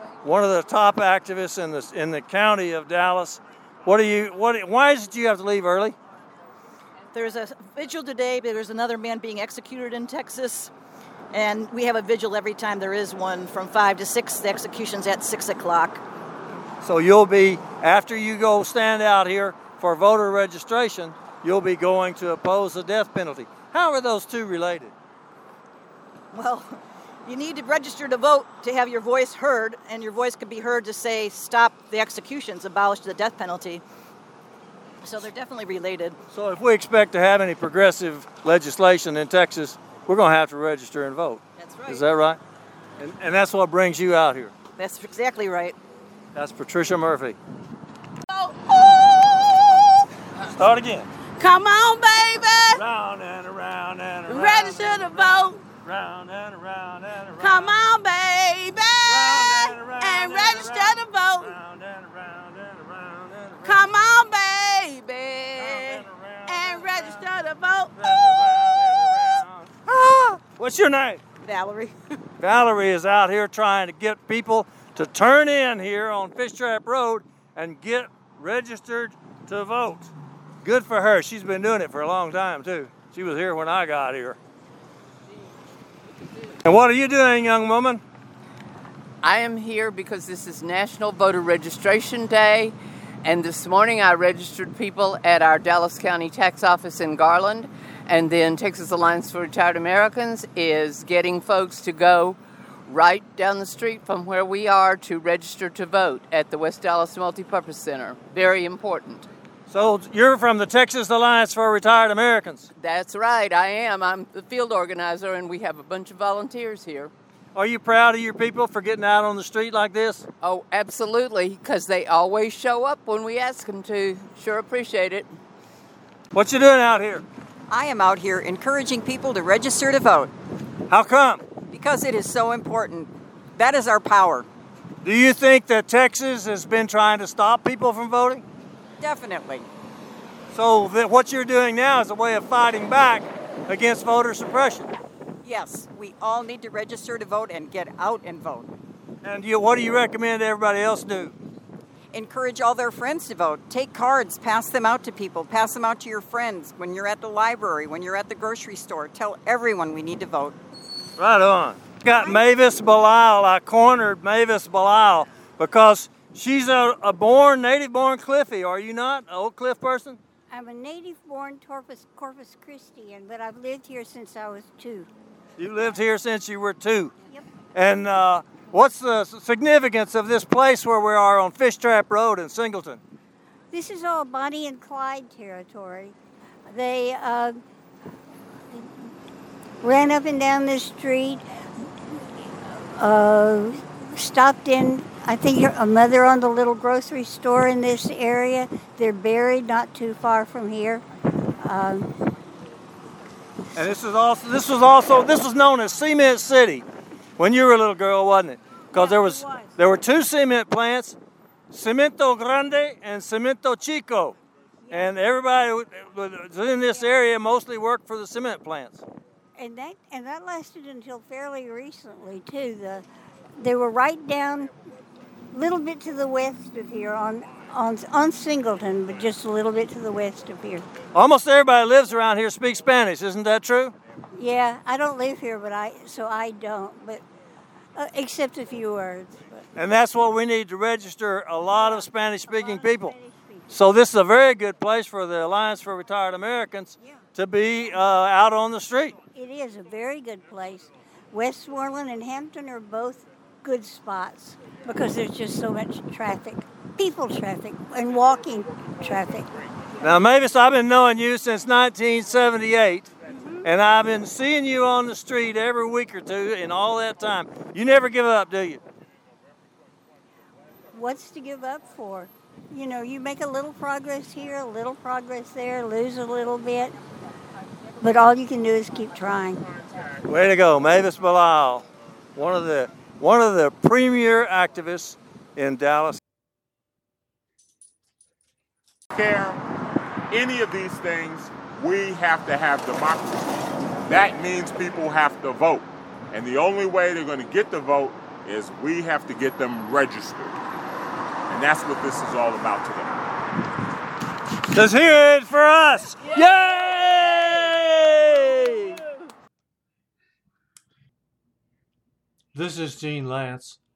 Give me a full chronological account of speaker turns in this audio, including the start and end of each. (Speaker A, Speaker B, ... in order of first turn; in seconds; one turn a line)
Speaker A: 0.2-6.0
Speaker B: 7.1-10.7
Speaker B: 11.3-16.0
Speaker A: 16.8-24.9
Speaker B: 26.3-33.8
Speaker B: 35.0-36.2
Speaker A: 36.3-42.4
Speaker B: 41.6-42.0
Speaker A: 43.0-44.5
Speaker B: 44.8-45.8
Speaker A: 46.4-47.4
Speaker C: 48.3-49.3
Speaker A: 50.3-51.1
Speaker C: 51.4-52.6
Speaker A: 52.6-57.8
Speaker C: 54.3-55.6
Speaker C: 57.4-61.5
Speaker A: 59.0-63.9
Speaker C: 63.6-68.5
Speaker A: 65.6-67.2
Speaker A: 68.0-71.2
Speaker B: 71.4-72.0
Speaker A: 72.4-84.4
Speaker A: 86.6-88.0
Speaker D: 89.2-109.3
Speaker A: 109.7-112.7
Speaker D: 112.8-117.1
Speaker A: 117.5-120.3
Speaker D: 120.4-125.3
Speaker A: 126.3-127.2
Speaker E: 127.7-130.3
Speaker A: 130.9-131.4
Speaker E: 131.7-134.5
Speaker A: 135.0-138.4
Speaker E: 139.0-139.7
Speaker A: 140.5-144.9
Speaker E: 145.4-148.8
Speaker A: 149.2-151.4
Speaker E: 152.1-160.6
Speaker A: 161.2-170.2
Speaker F: 162.1-162.4
Speaker F: 170.5-175.1
Speaker A: 175.6-177.1
Speaker A: 177.7-183.0
Speaker F: 183.7-186.2
Speaker F: 186.7-187.6
Speaker F: 188.7-189.1
Speaker F: 189.8-191.4
Speaker F: 192.8-201.0
Speaker F: 201.6-202.1
Speaker A: 203.8-206.9
Speaker A: 207.4-211.2
Speaker F: 208.9-209.7
Speaker A: 211.7-214.4
Speaker F: 214.9-215.1
Speaker A: 214.9-219.1
Speaker F: 219.6-224.7
Speaker F: 225.5-230.9
Speaker A: 231.1-233.9
Speaker F: 234.3-237.2
Speaker F: 238.0-239.7
Speaker A: 239.8-243.2
Speaker F: 242.5-243.8
Speaker A: 243.7-249.2
Speaker F: 249.3-259.6
Speaker A: 260.0-263.1
Speaker A: 263.6-268.8
Speaker F: 270.9-276.9
Speaker F: 278.0-279.7
Speaker A: 280.2-286.2
Speaker G: 289.1-289.6
Speaker G: 290.3-300.6
Speaker G: 301.5-303.2
Speaker A: 304.7-309.0
Speaker A: 312.5-313.8